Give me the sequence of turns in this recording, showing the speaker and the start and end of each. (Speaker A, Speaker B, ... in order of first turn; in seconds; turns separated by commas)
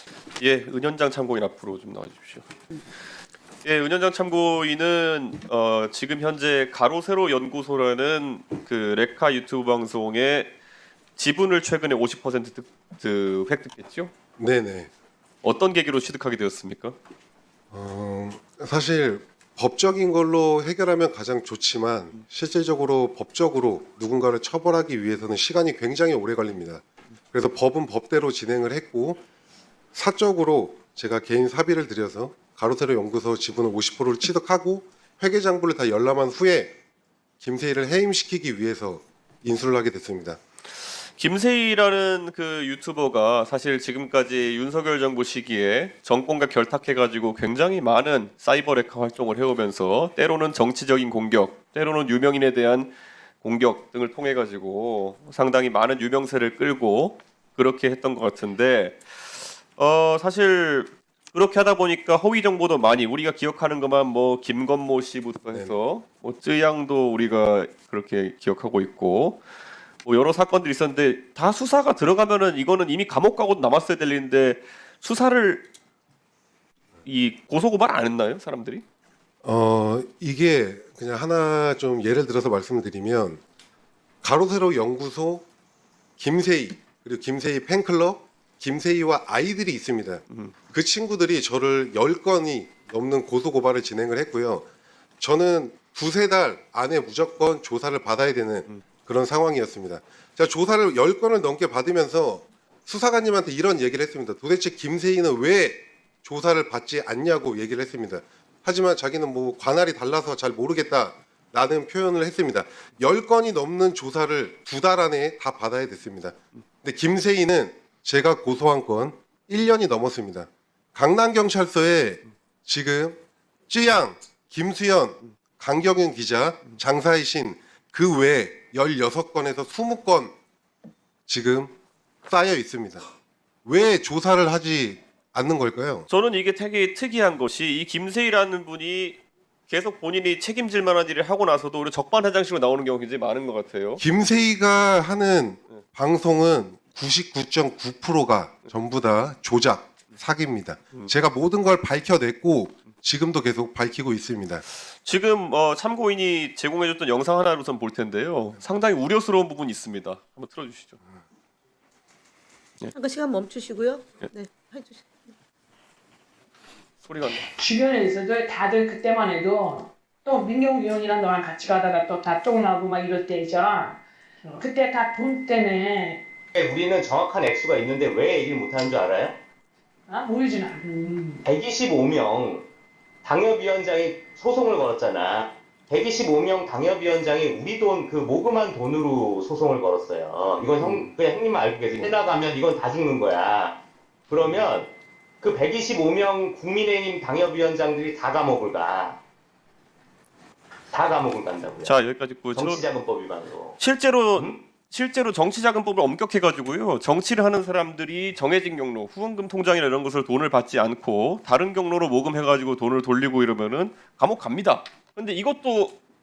Speaker A: 0.4-2.5, Speaker A: 3.6-10.5, Speaker A: 11.2-14.1, Speaker B: 14.4-14.9, Speaker A: 15.4-16.9, Speaker B: 17.7-29.2, Speaker B: 29.9-36.7, Speaker B: 37.4-40.4, Speaker A: 41.2-69.4, Speaker A: 70.0-75.6, Speaker A: 77.0-78.8, Speaker B: 79.4-83.4, Speaker B: 84.2-85.4, Speaker B: 86.2-94.7, Speaker B: 95.2-130.3, Speaker B: 131.3-131.7, Speaker B: 132.2-133.0, Speaker B: 133.6-136.1, Speaker A: 136.1-139.2, Speaker A: 139.7-144.0, Speaker B: 144.0-154.6, Speaker A: 155.0-161.0, Speaker C: 162.9-165.0, Speaker A: 167.0-167.5, Speaker D: 167.4-176.2, Speaker E: 176.5-179.4, Speaker D: 180.1-181.4, Speaker E: 181.4-182.7, Speaker E: 183.2-193.8, Speaker E: 194.3-199.2, Speaker E: 200.9-201.9, Speaker A: 201.8-202.8, Speaker E: 202.5-203.8, Speaker A: 203.8-216.0, Speaker E: 204.3-204.6